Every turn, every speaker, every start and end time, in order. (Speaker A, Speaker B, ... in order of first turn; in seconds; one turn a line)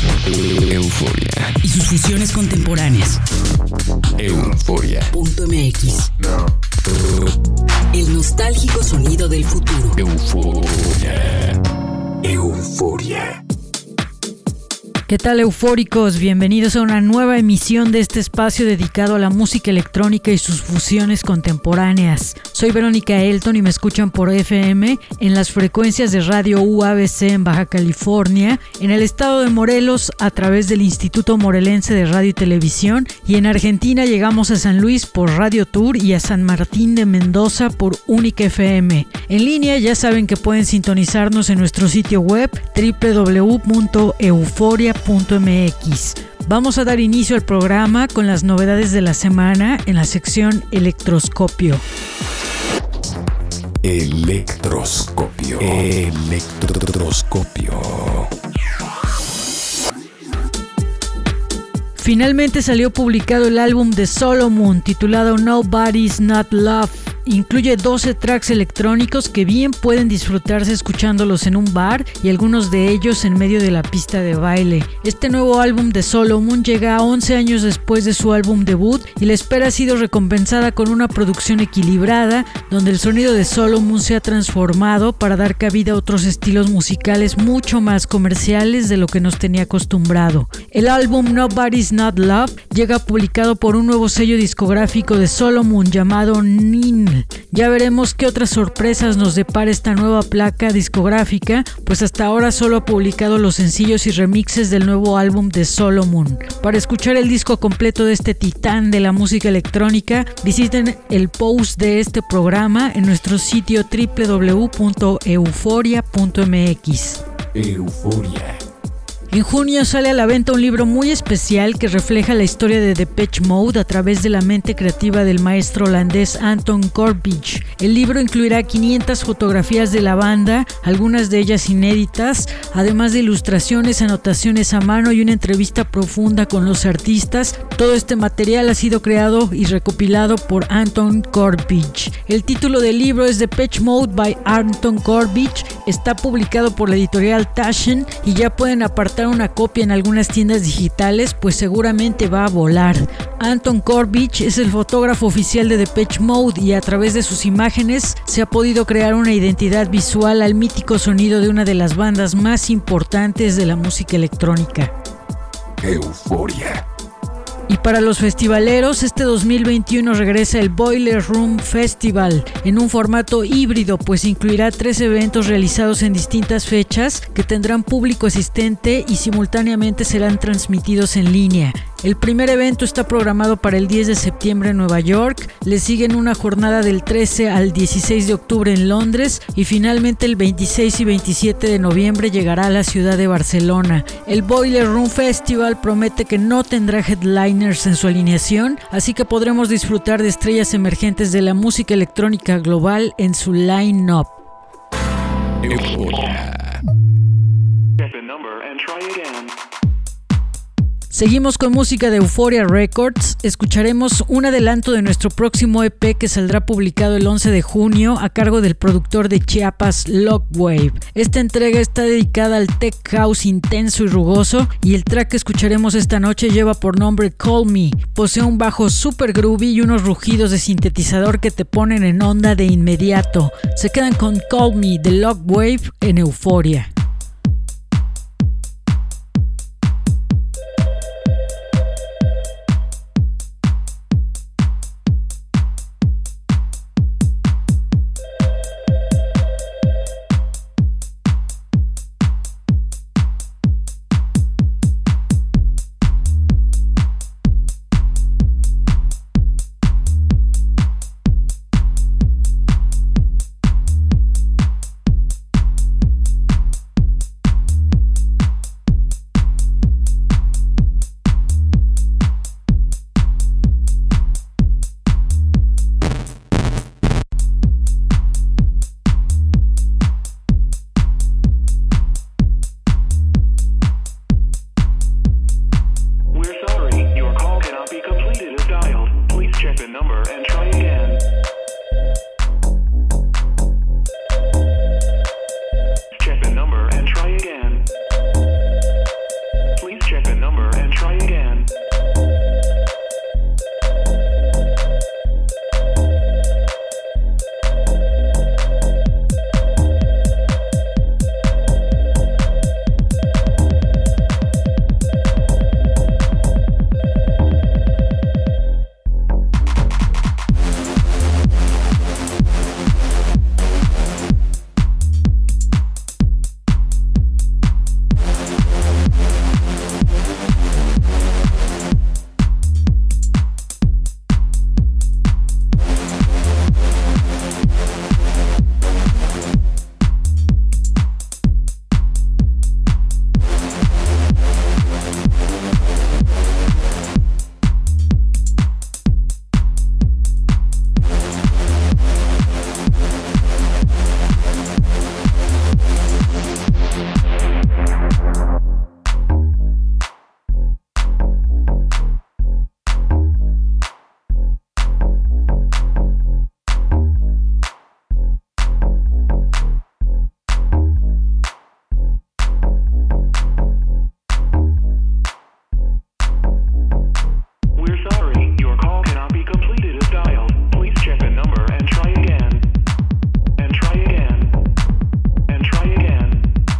Speaker A: 0.2-1.6
Speaker B: 1.6-3.2
Speaker A: 4.2-5.1
Speaker B: 5.1-6.1
Speaker A: 6.7-7.4
Speaker B: 7.9-10.0
Speaker A: 10.0-11.6
Speaker A: 12.2-13.4
Speaker C: 15.1-51.8
Speaker A: 53.8-58.3
Speaker C: 62.0-117.2
Speaker A: 117.5-118.6
Speaker C: 119.3-164.9
Speaker A: 165.8-166.8
Speaker C: 167.7-204.3
Speaker A: 205.6-206.8
Speaker D: 208.0-209.6
Speaker C: 211.1-236.9
Speaker D: 286.3-291.2
Speaker D: 296.1-297.9
Speaker D: 299.8-301.7
Speaker D: 377.8-382.7
Speaker D: 383.6-384.6
Speaker D: 385.5-386.5